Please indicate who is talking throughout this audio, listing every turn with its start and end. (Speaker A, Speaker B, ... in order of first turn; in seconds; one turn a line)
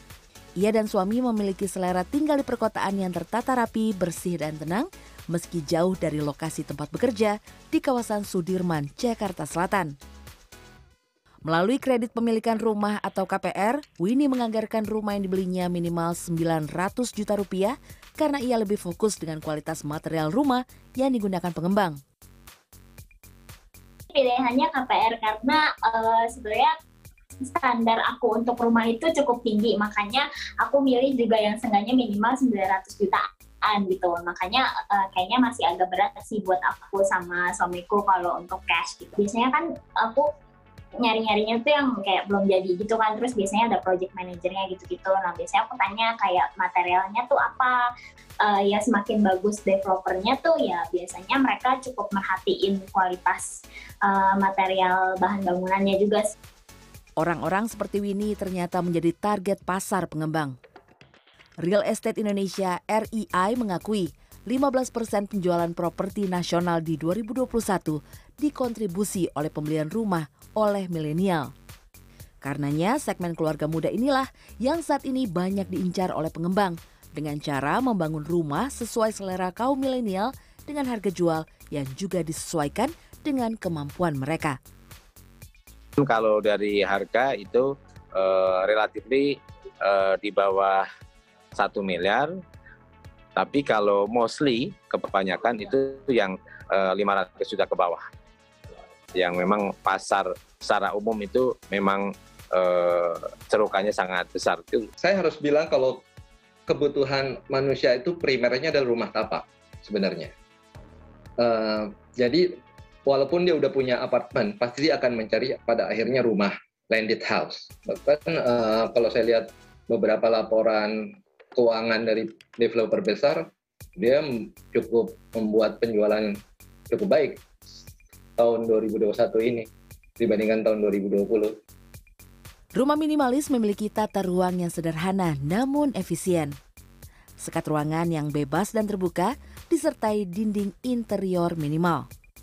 Speaker A: 0.6-9.9
Speaker A: 11.4-22.0
Speaker B: 24.1-26.7
Speaker B: 27.4-40.2
Speaker B: 41.0-47.8
Speaker B: 48.4-56.2
Speaker A: 57.2-60.5
Speaker A: 61.6-71.5
Speaker A: 72.4-84.6
Speaker C: 86.0-90.8
Speaker C: 91.5-92.3
Speaker C: 93.3-98.0
Speaker C: 99.1-104.9
Speaker D: 105.0-106.0
Speaker D: 106.7-110.3
Speaker D: 111.4-127.4
Speaker D: 128.4-131.6
Speaker A: 132.7-136.6
Speaker A: 137.4-142.1